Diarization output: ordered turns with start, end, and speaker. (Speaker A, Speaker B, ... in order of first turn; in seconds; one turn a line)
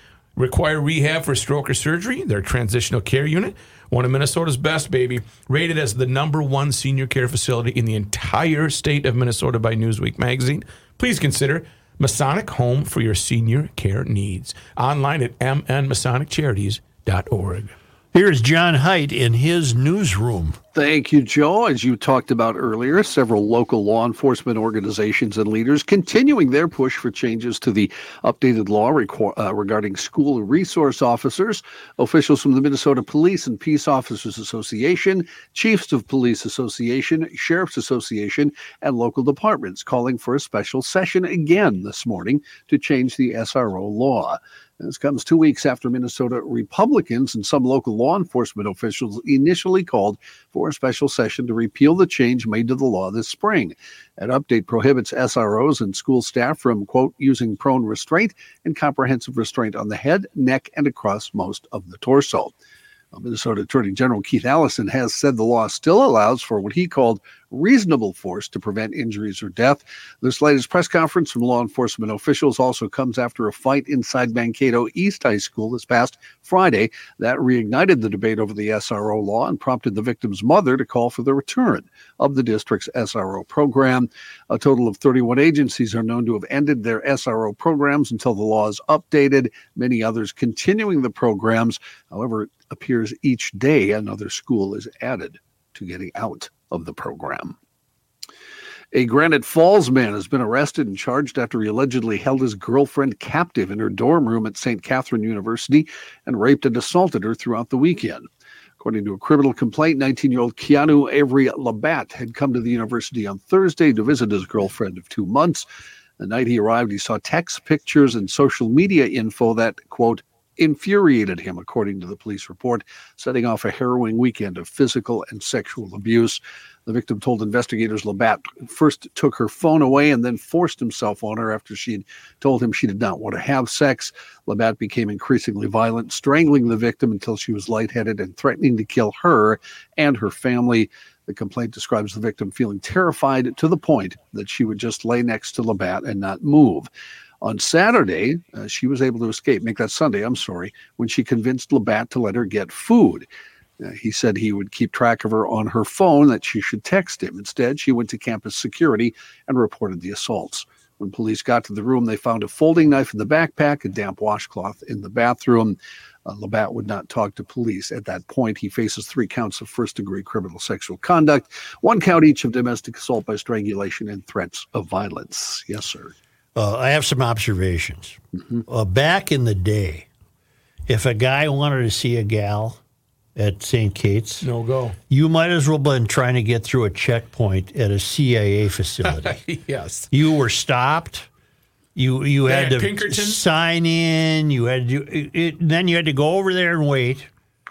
Speaker A: 0.4-17.7
Speaker B: 18.1-20.6
Speaker C: 20.8-62.5
Speaker C: 63.1-97.6
Speaker C: 98.9-108.3
Speaker C: 108.8-115.7
Speaker C: 116.2-146.9
Speaker C: 147.4-153.3
Speaker C: 153.8-176.1
Speaker B: 176.6-180.1
Speaker B: 180.9-182.8
Speaker B: 183.4-184.5
Speaker A: 184.4-185.0
Speaker B: 185.1-189.4
Speaker A: 189.1-190.1
Speaker B: 190.1-191.3
Speaker B: 192.0-197.3
Speaker A: 192.4-193.4